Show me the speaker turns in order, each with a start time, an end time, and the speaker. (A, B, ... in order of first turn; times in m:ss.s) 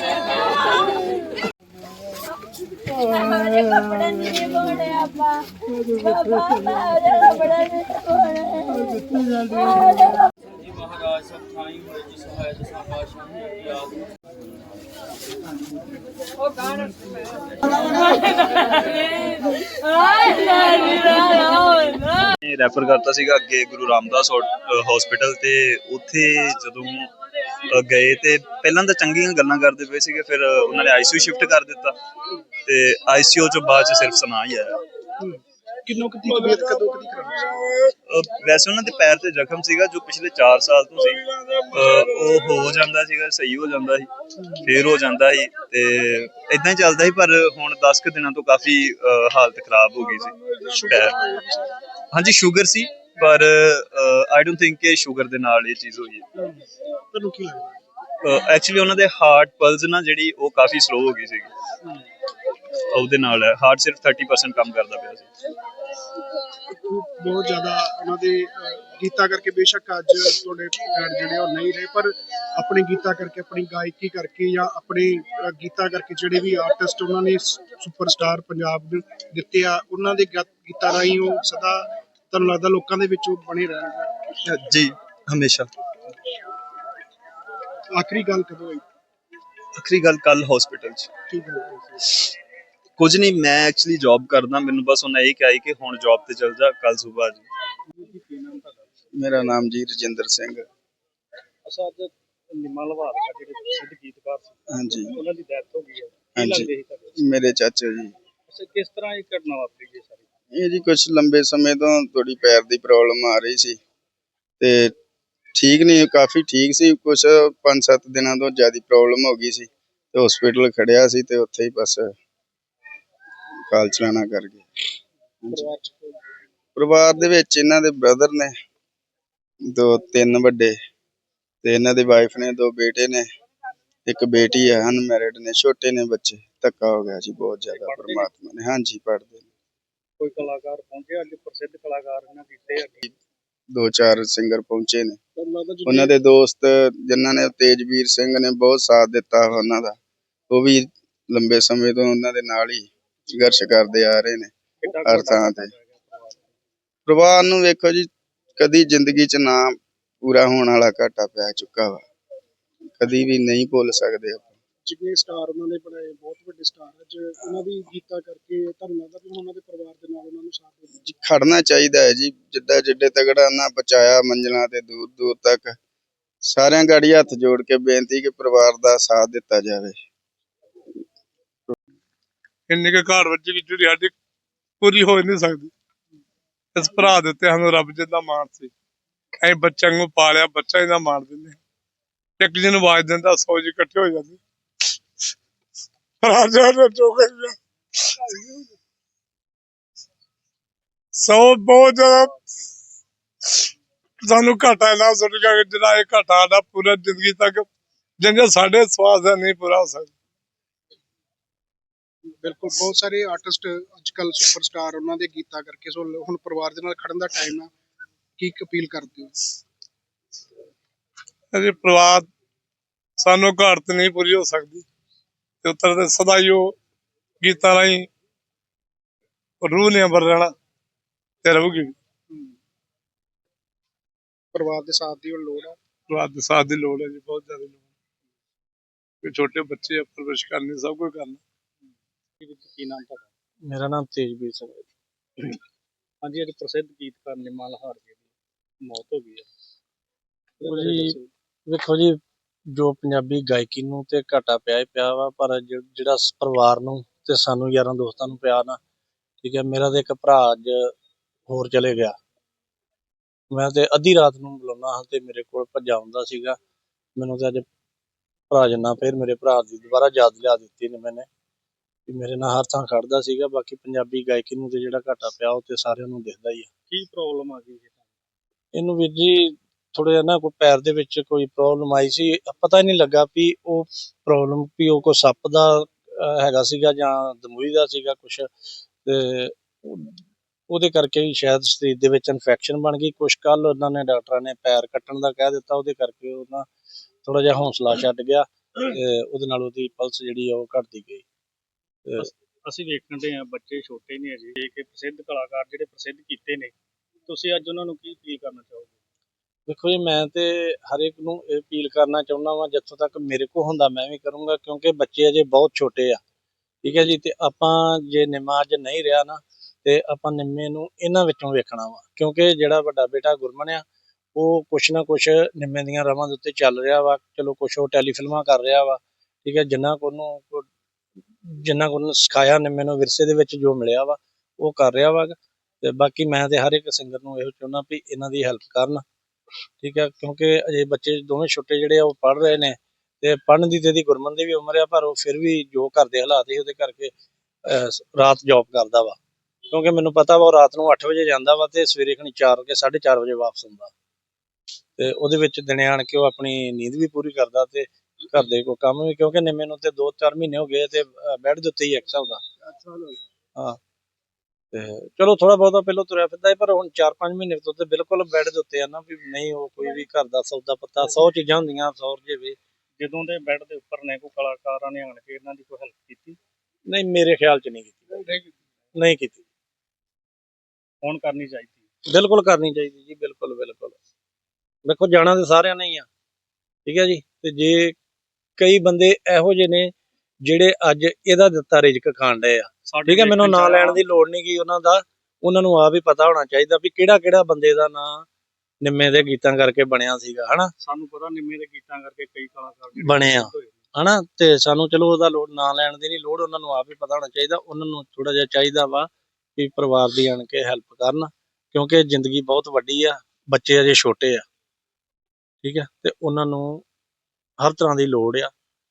0:04.5-0:05.1 A
0:07.1-0:08.4 A
0:22.4-0:27.1 B
0:27.7-0:32.0 B
0:32.6-0:34.8 B
0:35.2-0:37.9 C
0:38.1-0:44.1 B
0:44.6-0:50.3 B
0:50.7-0:51.7 C
0:50.9-0:51.2 B
0:52.1-0:56.2 B
0:56.4-0:57.8 C
0:58.2-1:01.5 B
1:02.9-1:05.3 B
1:06.7-1:24.1 C
1:24.5-1:25.7 B
1:27.9-1:28.8 C
1:29.8-1:31.1 B
1:31.3-1:32.0 C
1:33.0-1:37.4 B
1:38.0-1:38.9 D
1:39.2-1:40.6 E
1:41.6-1:47.2 D
1:44.7-1:45.1 E
1:46.4-1:48.1 E
1:48.5-1:50.2 D
1:50.5-1:53.8 E
1:54.6-1:54.9 E
1:55.5-2:02.1 E
2:03.7-2:04.6 E
2:05.4-2:05.7 E
2:05.5-2:06.1 C
2:06.8-2:08.5 E
2:09.6-2:10.8 E
2:11.6-2:13.2 E
2:14.0-2:19.5 E
2:17.7-2:18.3 D
2:20.2-2:23.0 D
2:23.7-2:25.2 E
2:25.4-2:26.2 C
2:25.8-2:30.0 E
2:30.5-2:35.7 E
2:34.8-2:36.5 D
2:37.0-2:42.0 E
2:43.0-2:44.5 E
2:44.8-2:50.9 C
2:51.0-2:55.8 E
2:56.4-3:00.0 E
3:02.7-3:04.1 F
3:04.8-3:05.7 F
3:06.7-3:08.7 F
3:09.4-3:11.6 F
3:12.4-3:14.4 F
3:16.2-3:18.6 F
3:21.2-3:22.4 F
3:24.2-3:27.6 F
3:28.2-3:30.1 F
3:32.4-3:37.7 C
3:38.4-3:39.4 C
3:41.5-3:42.3 F
3:43.2-3:44.8 F
3:45.6-3:46.7 F
3:47.4-3:48.1 F
3:49.6-3:50.5 F
3:51.4-3:51.9 F
3:54.5-3:55.8 C
3:56.1-3:57.8 F
3:59.2-4:01.4 F
4:02.4-4:03.3 D
4:03.7-4:04.9 G
4:06.2-4:08.3 D
4:08.8-4:09.5 D
4:10.6-4:11.3 D
4:10.6-4:11.2 G
4:11.7-4:12.2 G
4:12.7-4:18.8 G
4:19.4-4:20.9 G
4:21.5-4:22.2 G
4:23.5-4:26.6 G
4:27.2-4:27.6 G
4:28.5-4:31.3 G
4:32.1-4:36.7 G
4:36.9-4:38.0 D
4:38.7-4:48.5 G
4:49.0-4:56.6 G
4:57.2-5:01.2 G
5:02.6-5:06.7 D
5:07.3-5:08.9 D
5:09.7-5:16.2 G
5:16.8-5:23.8 G
5:24.3-5:30.7 G
5:31.4-5:39.0 G
5:39.8-5:47.1 G
5:47.6-5:49.2 G
5:49.7-5:53.9 G
5:55.0-6:02.4 G
6:02.6-6:03.2 C
6:04.7-6:12.6 G
6:13.0-6:16.4 D
6:16.9-6:18.2 G
6:18.9-6:19.4 G
6:21.0-6:21.8 D
6:22.1-6:24.0 G
6:24.8-6:26.1 G
6:26.8-6:28.0 G
6:28.6-6:29.9 G
6:30.4-6:38.2 G
6:32.9-6:34.0 D
6:38.8-6:40.7 G
6:40.8-6:43.8 D
6:43.0-6:54.4 G
6:55.6-6:56.8 G
6:57.6-6:58.5 G